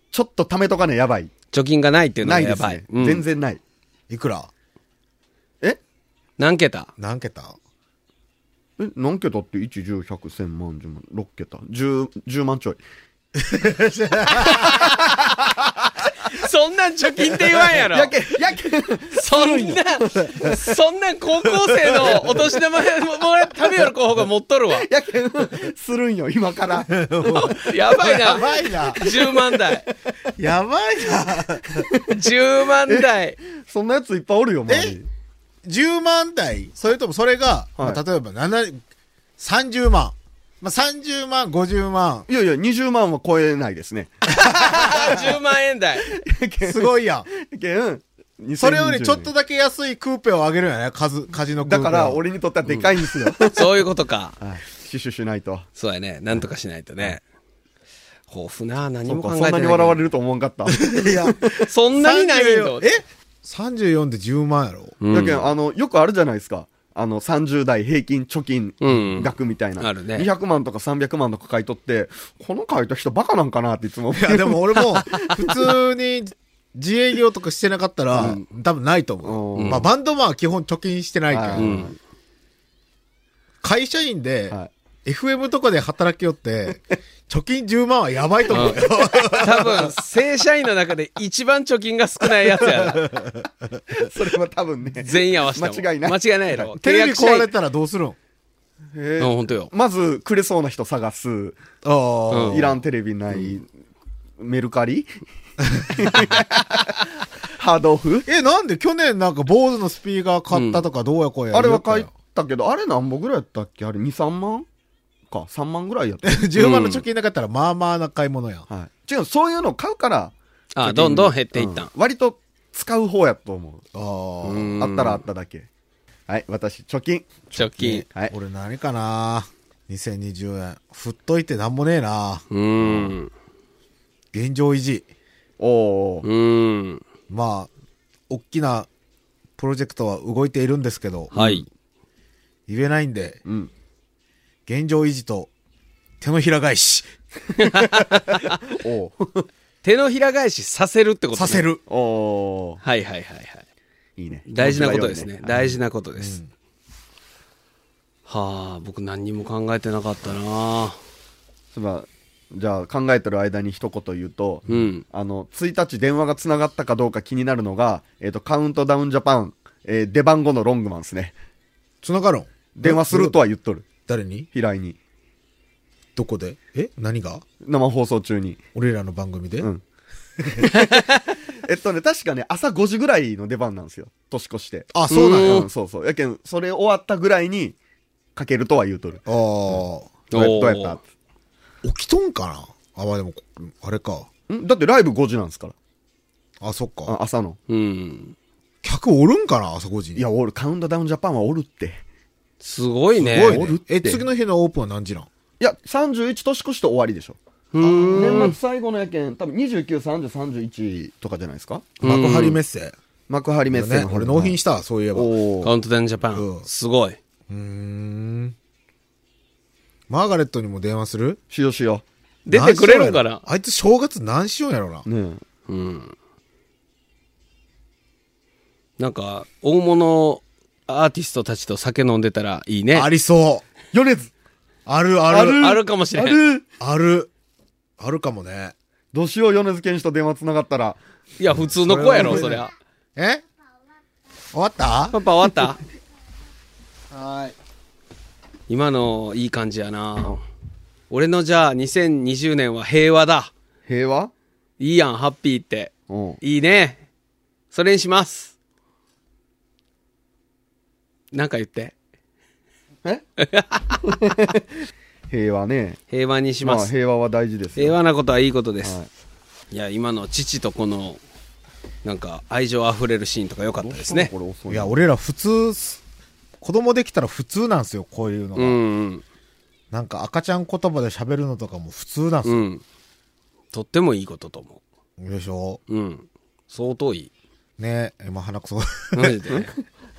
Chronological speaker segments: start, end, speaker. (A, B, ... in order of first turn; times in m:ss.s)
0:00.1-0:01.3 A
0:01.5-0:03.2 B
0:02.2-0:03.6 A
0:04.1-0:04.5 C
0:06.4-0:06.9 B
0:07.0-0:07.6 C
0:08.8-0:12.8 A
0:13.4-0:14.9 C
0:14.4-0:14.8 B
0:14.4-0:15.4 A
0:16.2-0:18.1 B
0:17.6-0:20.6 A
0:19.1-0:24.9 B
0:21.8-0:22.5 A
0:24.7-0:29.7 A
0:26.9-0:29.0 C
0:27.3-0:29.8 B
0:30.3-0:31.9 C
0:31.7-0:32.2 A
0:32.1-0:33.4 B
0:32.9-0:35.1 A
0:34.7-0:35.0 C
0:35.6-0:38.8 C
0:37.8-0:38.0 A
0:39.4-0:42.3 C
0:42.3-0:45.3 A
0:44.4-0:46.1 B
0:46.1-0:49.3 A
0:46.6-0:47.3 C
0:48.6-0:52.2 C
0:51.6-0:53.8 A
0:53.5-0:54.4 B
0:54.4-0:55.7 A
0:55.8-0:57.2 B
0:58.3-1:00.0 B
0:59.1-1:01.6 A
1:00.7-1:05.0 C
1:01.6-1:02.8 B
1:05.0-1:05.5 B
1:05.1-1:15.7 A
1:08.8-1:10.3 B
1:14.1-1:21.8 C
1:18.1-1:18.4 A
1:19.2-1:19.9 A
1:19.6-1:19.8 B
1:21.3-1:21.9 A
1:21.6-1:21.9 B
1:23.6-1:29.9 C
1:28.5-1:29.9 A
1:28.5-1:28.8 B
1:29.4-1:33.0 B
1:32.7-1:33.8 C
1:33.9-1:36.6 A
1:35.0-1:37.5 B
1:36.8-1:38.2 C
1:38.9-1:41.6 A
1:39.2-1:39.7 B
1:41.8-1:42.8 C
1:42.3-1:42.6 B
1:42.5-1:43.7 A
1:44.4-1:45.1 A
1:45.7-1:48.3 A
1:48.2-1:52.1 C
1:50.5-1:50.8 B
1:51.5-1:54.6 A
1:55.3-1:56.5 A
1:56.2-1:58.6 C
1:56.6-1:57.0 B
1:58.7-2:03.8 A
2:00.7-2:01.9 B
2:03.9-2:04.8 C
2:04.4-2:05.2 B
2:04.8-2:05.7 A
2:06.3-2:08.3 A
2:07.5-2:08.0 B
2:07.8-2:12.4 C
2:12.5-2:13.3 B
2:12.8-2:13.1 A
2:14.3-2:15.0 C
2:15.6-2:16.2 A
2:16.2-2:17.0 B
2:17.3-2:17.7 C
2:18.3-2:18.9 C
2:19.6-2:21.3 C
2:21.3-2:21.6 A
2:21.3-2:21.6 B
2:22.7-2:23.4 C
2:23.4-2:23.7 A
2:24.7-2:25.5 C
2:26.2-2:27.1 C
2:27.6-2:28.6 B
2:28.6-2:29.5 A
2:29.8-2:31.6 B
2:31.3-2:31.8 C
2:31.9-2:32.8 A
2:32.8-2:33.6 B
2:34.2-2:35.5 A
2:34.5-2:36.4 B
2:35.5-2:36.5 C
2:38.3-2:41.0 B
2:41.7-2:51.4 A
2:44.7-2:45.0 B
2:52.0-2:53.4 C
2:52.7-2:53.9 A
2:54.1-2:54.5 C
2:54.5-2:55.0 A
2:56.2-2:57.4 C
2:57.6-2:58.6 A
2:58.7-2:59.7 C
3:00.4-3:07.8 A
3:00.7-3:01.2 B
3:04.9-3:05.7 C
3:05.1-3:05.7 B
3:08.4-3:11.0 A
3:09.2-3:10.1 C
3:10.3-3:11.0 B
3:11.8-3:14.3 C
3:14.5-3:15.7 A
3:16.6-3:17.1 C
3:17.0-3:17.6 A
3:17.7-3:18.3 B
3:18.8-3:20.2 C
3:20.2-3:22.0 A
3:22.6-3:23.6 B
3:23.2-3:25.3 C
3:23.2-3:24.2 A
3:25.6-3:27.4 A
3:27.7-3:28.5 B
3:27.8-3:28.6 C
3:28.1-3:31.9 A
3:32.0-3:32.6 B
3:32.0-3:33.0 C
3:33.3-3:34.6 A
3:33.7-3:35.3 C
3:35.1-3:35.7 A
3:35.6-3:37.2 B
3:36.3-3:36.6 C
3:37.5-3:38.5 C
3:40.1-3:41.4 C
3:41.5-3:42.0 A
3:42.4-3:43.4 B
3:42.5-3:45.0 C
3:45.0-3:45.4 A
3:45.7-3:46.1 B
3:49.0-3:53.1 B
3:52.9-3:53.6 C
3:53.9-3:54.3 A
3:54.9-3:55.7 C
3:55.3-3:56.6 A
3:55.6-3:56.4 B
3:56.8-3:57.3 C
3:58.0-3:58.7 C
3:59.1-4:01.0 A
4:01.4-4:02.7 B
4:01.8-4:02.6 C
4:02.2-4:02.5 A
4:03.2-4:03.4 C
4:04.5-4:05.2 C
4:05.1-4:05.8 B
4:07.1-4:07.5 C
4:08.7-4:10.4 B
4:11.1-4:13.5 B
4:13.9-4:14.3 A
4:14.8-4:17.0 B
4:16.1-4:16.4 A
4:17.7-4:18.5 B
4:21.3-4:21.9 B
4:23.4-4:24.0 B
4:24.0-4:24.6 A
4:25.3-4:26.0 A
4:26.1-4:26.9 B
4:26.6-4:28.0 A
4:27.8-4:29.0 B
4:28.8-4:29.1 A
4:29.7-4:31.2 B
4:32.0-4:34.3 B
4:33.8-4:35.0 A
4:34.7-4:36.0 C
4:36.6-4:38.8 C
4:38.6-4:39.2 B
4:39.9-4:42.6 C
4:42.4-4:42.8 B
4:43.7-4:44.8 B
4:45.2-4:45.8 C
4:45.9-4:47.3 B
4:47.8-4:49.5 C
4:49.1-4:49.7 B